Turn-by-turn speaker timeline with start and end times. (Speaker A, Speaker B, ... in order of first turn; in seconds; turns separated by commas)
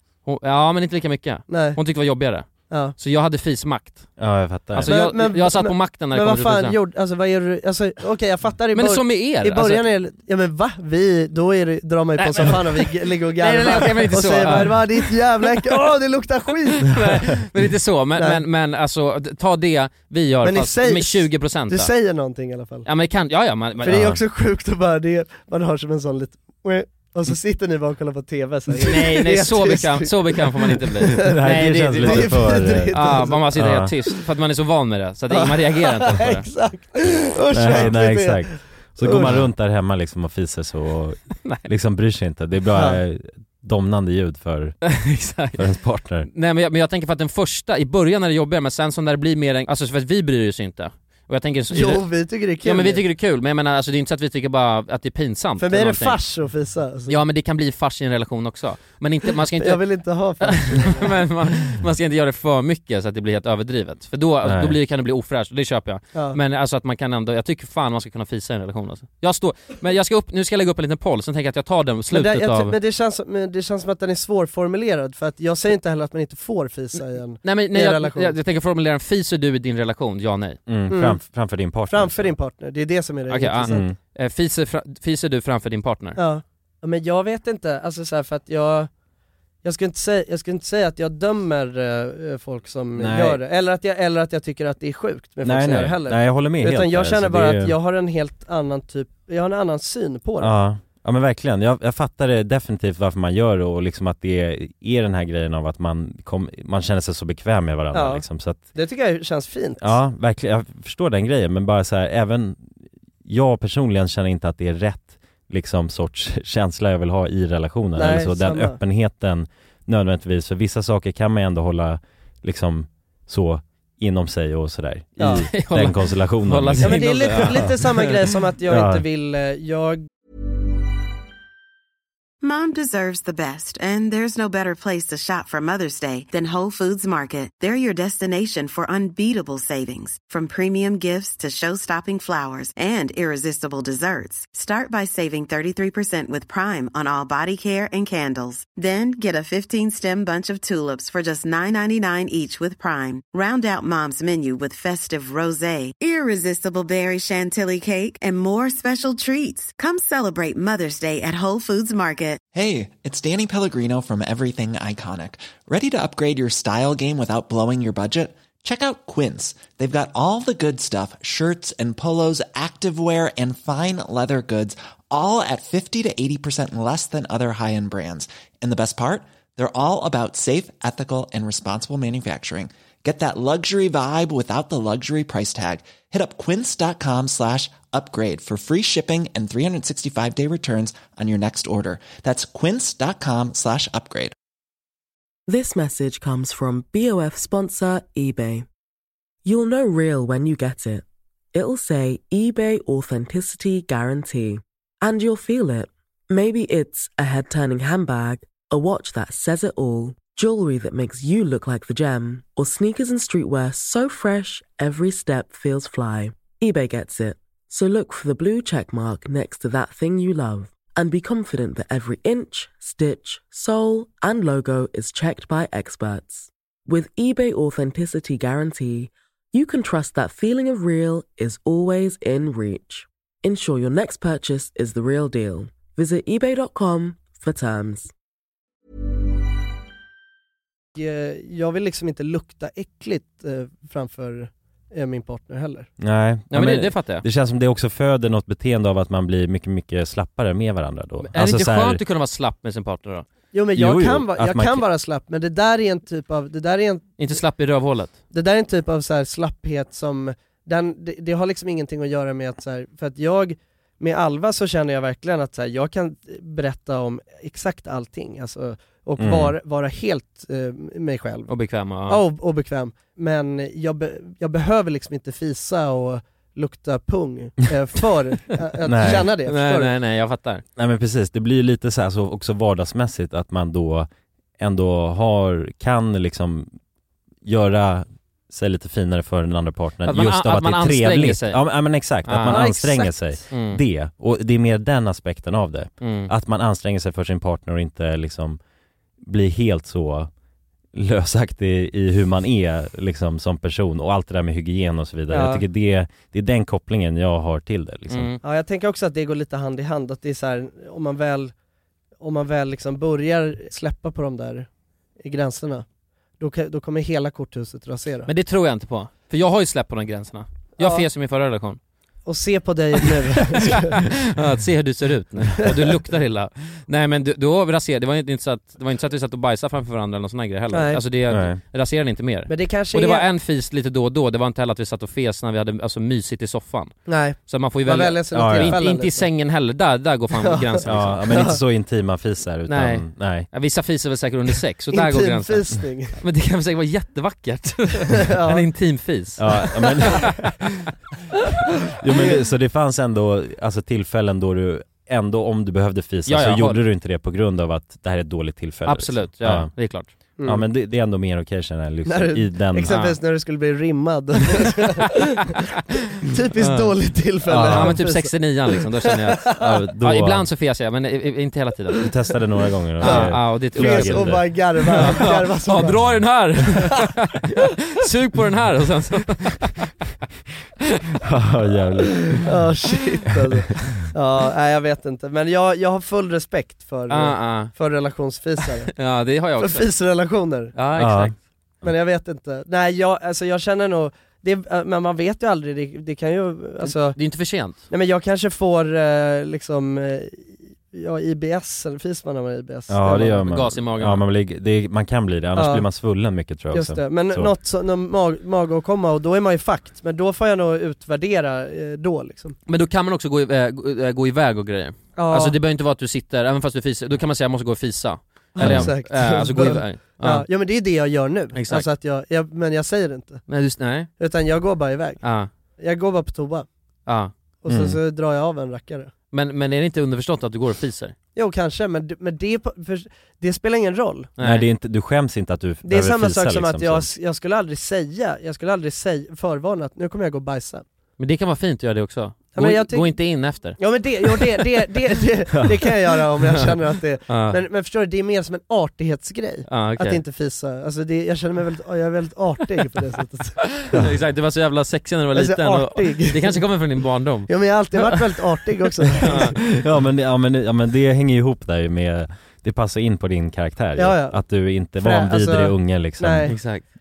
Speaker A: 0.2-4.2, Speaker B: 1.5-1.8, Speaker B: 2.7-3.0, Speaker C: 4.2-4.9, Speaker A: 4.7-6.8, Speaker B: 4.8-17.0, Speaker A: 8.7-9.9, Speaker A: 12.2-15.8, Speaker A: 16.7-21.9, Speaker B: 18.2-18.4, Speaker B: 20.4-22.9, Speaker A: 22.9-24.0, Speaker B: 23.8-33.5, Speaker C: 23.9-24.2, Speaker A: 28.8-36.5, Speaker C: 31.2-33.9, Speaker B: 35.3-39.4, Speaker C: 37.5-44.8, Speaker B: 42.7-43.0, Speaker A: 44.8-45.6, Speaker C: 45.5-46.3, Speaker A: 46.3-56.2, Speaker B: 51.7-53.0, Speaker B: 55.6-57.1, Speaker A: 57.1-72.8, Speaker B: 59.6-61.1, Speaker C: 64.4-64.8, Speaker B: 66.1-66.4, Speaker B: 72.1-78.4, Speaker A: 77.4-80.6, Speaker C: 80.7-82.3, Speaker B: 80.9-81.2, Speaker B: 81.9-83.9, Speaker A: 83.3-86.2, Speaker C: 83.7-84.0, Speaker B: 86.2-88.9, Speaker B: 89.6-100.5, Speaker C: 93.0-93.4, Speaker C: 95.4-97.8, Speaker C: 100.4-108.7, Speaker B: 107.9-109.9, Speaker C: 109.8-112.6, Speaker C: 113.2-127.8, Speaker B: 118.0-118.8, Speaker B: 125.2-125.5, Speaker A: 125.4-128.1, Speaker B: 126.8-130.1, Speaker C: 128.7-129.1, Speaker D: 132.4-162.4, Speaker E: 162.5-194.3, Speaker F: 195.5-198.7, Speaker F: 199.4-238.1, Speaker B: 241.0-245.9, Speaker C: 246.0-252.0, Speaker A: 246.5-247.2, Speaker A: 251.3-253.3, Speaker B: 253.5-257.2, Speaker C: 253.7-254.9, Speaker A: 257.2-258.2, Speaker B: 258.3-271.5, Speaker C: 269.2-269.6, Speaker A: 271.5-272.2, Speaker B: 272.1-279.9, Speaker C: 278.8-279.3, Speaker A: 279.0-280.6, Speaker C: 280.8-286.7, Speaker C: 287.4-298.6, Speaker A: 290.1-291.6, Speaker A: 292.2-292.7, Speaker B: 292.5-293.4, Speaker A: 293.5-293.8, Speaker A: 296.0-296.3, Speaker C: 299.2-300.3, Speaker C: 300.9-308.3, Speaker B: 305.3-305.6, Speaker A: 308.1-308.4, Speaker B: 308.4-311.5, Speaker B: 312.2-314.7, Speaker B: 315.2-315.9, Speaker B: 316.4-318.3, Speaker A: 318.3-321.8, Speaker B: 320.8-321.1, Speaker B: 322.2-324.1, Speaker A: 324.3-341.5, Speaker B: 330.7-331.0, Speaker C: 331.3-331.6, Speaker B: 332.5-333.3, Speaker B: 337.1-339.3, Speaker C: 338.3-338.8, Speaker B: 340.4-341.6, Speaker C: 340.9-343.5, Speaker A: 342.7-350.5, Speaker B: 344.9-346.2, Speaker B: 348.2-348.7, Speaker C: 349.4-350.5, Speaker C: 351.9-359.7, Speaker A: 356.3-356.8, Speaker A: 358.9-360.1, Speaker B: 360.4-360.7, Speaker C: 360.4-363.0, Speaker B: 362.1-365.5, Speaker A: 362.9-363.2, Speaker B: 366.2-368.5, Speaker A: 366.6-366.9, Speaker C: 367.5-368.0, Speaker A: 367.5-372.1, Speaker B: 369.2-369.7, Speaker C: 369.6-370.5, Speaker C: 372.0-375.2, Speaker B: 373.0-376.2, Speaker A: 373.0-379.9, Speaker C: 381.2-382.5, Speaker B: 382.4-388.9, Speaker A: 387.1-387.7, Speaker A: 388.9-389.9, Speaker B: 389.6-390.8, Speaker A: 390.8-391.4, Speaker C: 391.0-391.9, Speaker B: 391.8-397.2, Speaker A: 396.8-397.8, Speaker B: 397.9-403.4, Speaker C: 402.9-407.5, Speaker A: 403.4-404.2, Speaker B: 405.6-405.9, Speaker B: 406.7-412.6, Speaker A: 412.7-420.5, Speaker B: 415.2-415.6, Speaker B: 418.6-423.4, Speaker C: 418.6-418.9, Speaker A: 421.5-421.9, Speaker A: 423.5-424.1, Speaker B: 424.2-425.2, Speaker A: 425.2-425.5, Speaker B: 425.8-426.7, Speaker A: 427.1-427.3, Speaker B: 427.6-429.1, Speaker C: 427.7-428.0, Speaker A: 429.3-431.1, Speaker B: 431.4-434.3, Speaker A: 434.4-434.7, Speaker C: 434.4-437.1, Speaker B: 435.8-440.8, Speaker A: 441.2-444.5, Speaker B: 442.5-443.1, Speaker B: 443.8-453.6, Speaker A: 447.3-447.6, Speaker A: 449.7-450.2, Speaker A: 453.6-458.4, Speaker B: 455.3-456.6, Speaker B: 457.5-459.6, Speaker A: 459.2-459.6, Speaker C: 459.3-466.5, Speaker B: 464.0-466.6, Speaker A: 466.5-466.9